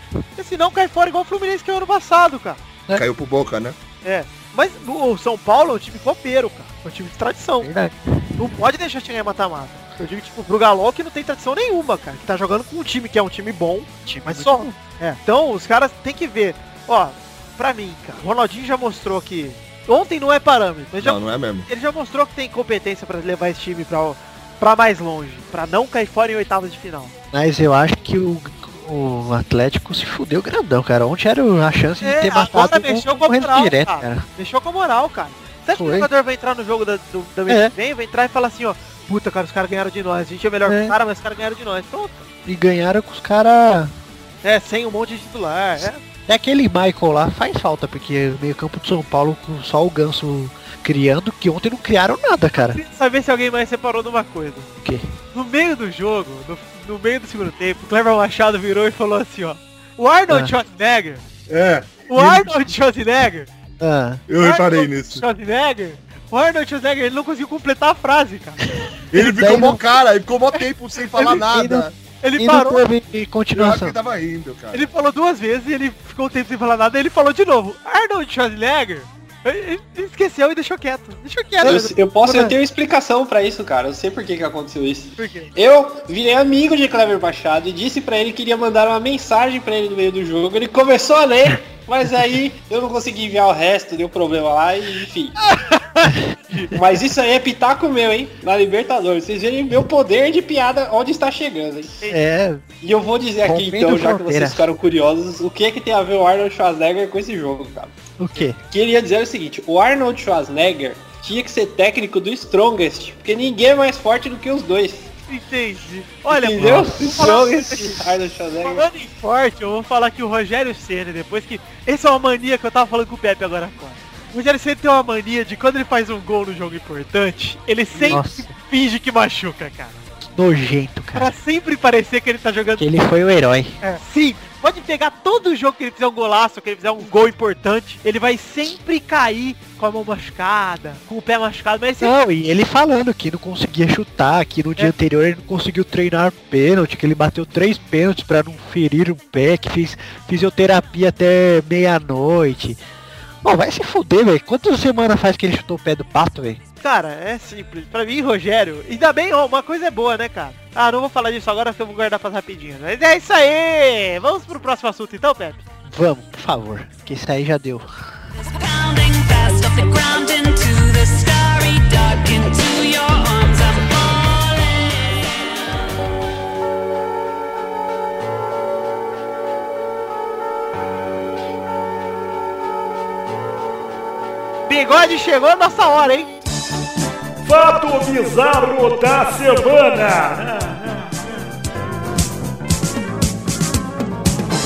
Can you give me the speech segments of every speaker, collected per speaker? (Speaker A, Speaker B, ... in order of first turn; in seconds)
Speaker A: 0.4-2.6, 4.0-7.7, 8.4-27.1, 32.0-42.3, 44.4-46.0, 52.7-54.7, 55.3-61.2, 62.1-63.5, 64.4-68.6, 72.2-72.8, 74.7-81.9, 85.2-85.5, 95.5-96.7, 115.3-118.0, 118.6-130.0, 131.2-132.9, 133.8-142.1, 156.8-165.6, 184.7-186.3
Speaker B: 2.9-3.8, 21.0-21.7, 61.5-62.6, 64.3-65.2, 69.1-71.9, 73.5-74.9
Speaker C: 7.6-8.4, 14.1-14.8, 27.3-34.3, 35.7-36.1, 37.5-37.7, 40.7-41.0, 42.5-43.9, 46.3-52.8, 54.8-55.1, 63.8-64.2, 69.1-69.8, 71.2-71.9, 72.4-74.0, 81.6-82.5, 102.1-102.6, 103.4-104.7, 108.2-108.6, 116.6-117.0, 128.0-128.5, 130.3-131.3, 132.8-133.8, 142.0-152.8, 153.4-156.6, 165.9-167.9
Speaker D: 81.6-95.4, 96.7-102.0, 102.8-115.1, 116.3-118.9
Speaker E: 168.4-175.5
Speaker F: 187.4-191.0